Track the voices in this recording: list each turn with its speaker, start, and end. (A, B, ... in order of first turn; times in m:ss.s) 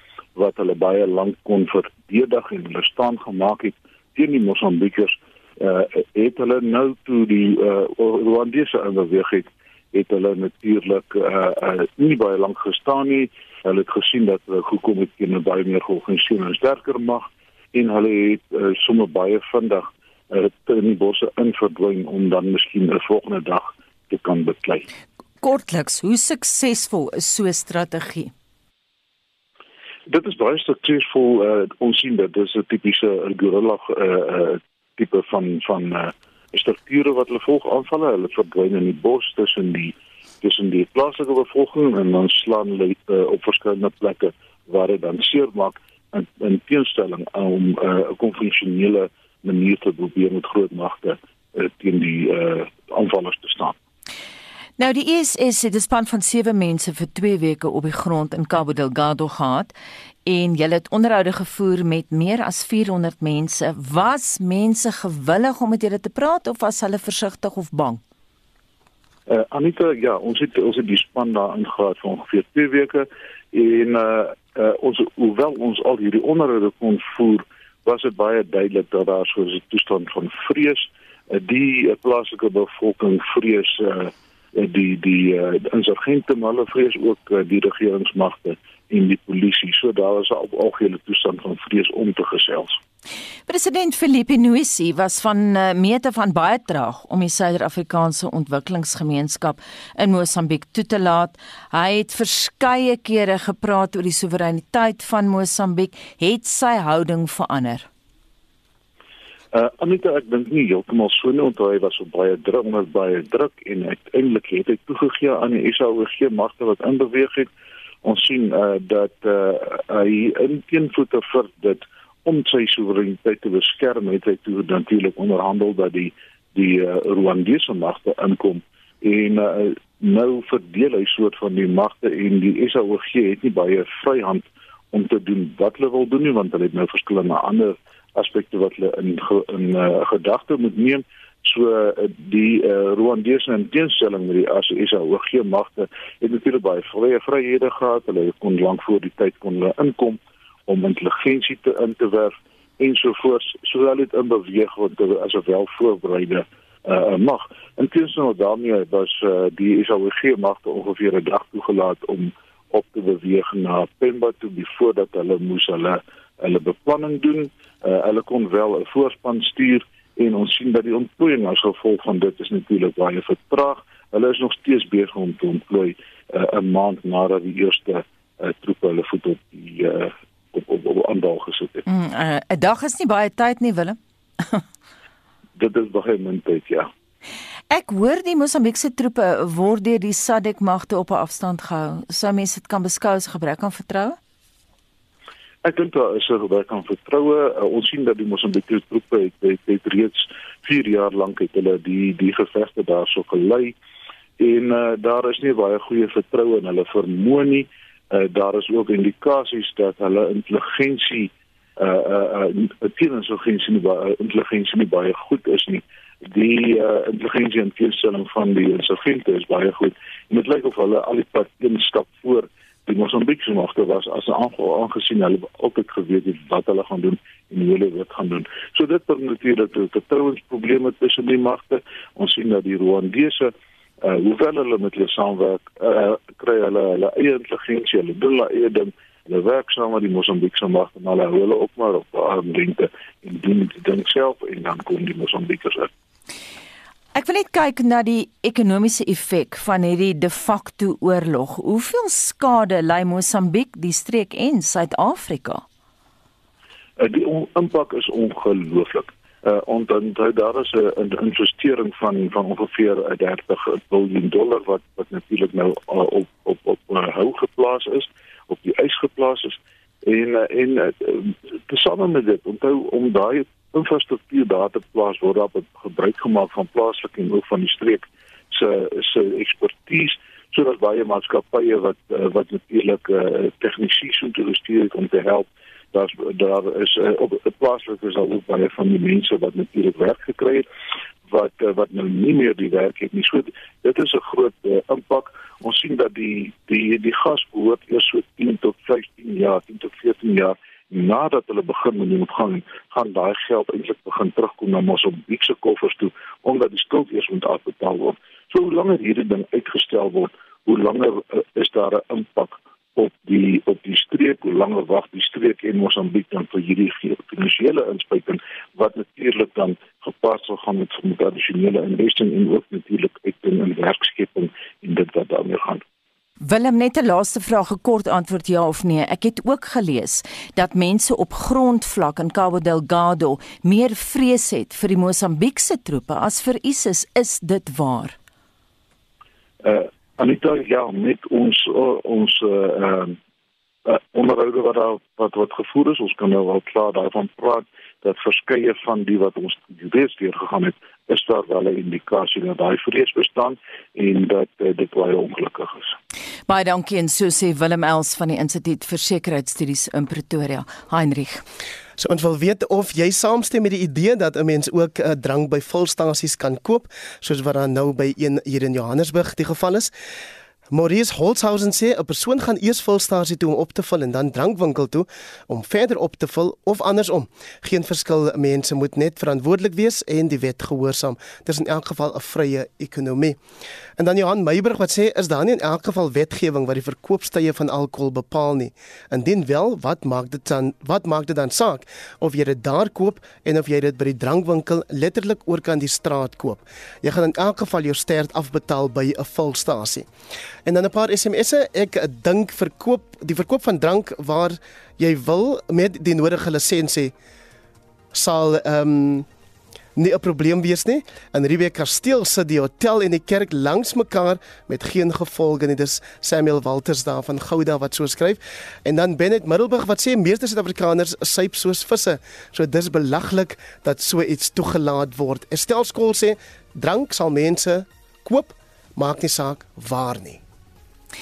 0:00.4-0:24.8 A
0:25.4-0:28.3 B
0:30.1-0:53.7 A
0:54.8-0:59.7 B
1:00.2-1:08.0 B
1:09.3-1:32.8 A
1:33.5-1:47.8 B
1:49.5-1:57.5 A
1:58.0-3:01.8 A
3:01.9-3:04.0 B
3:05.6-3:06.9 A
3:07.7-3:14.2 B
3:15.6-3:23.7 A
3:24.4-4:05.9 A
4:07.1-4:15.6 B
4:17.0-4:50.6 A
4:51.3-5:25.8 A
5:26.4-5:38.2 B
5:39.6-5:43.2 A
5:43.9-5:55.9 A
5:56.5-6:01.4 B
6:02.0-6:09.9 C
6:10.7-6:23.4 C
6:24.0-6:40.1 C
6:40.6-6:47.1 C
6:48.1-6:49.3 C
6:50.0-7:10.4 C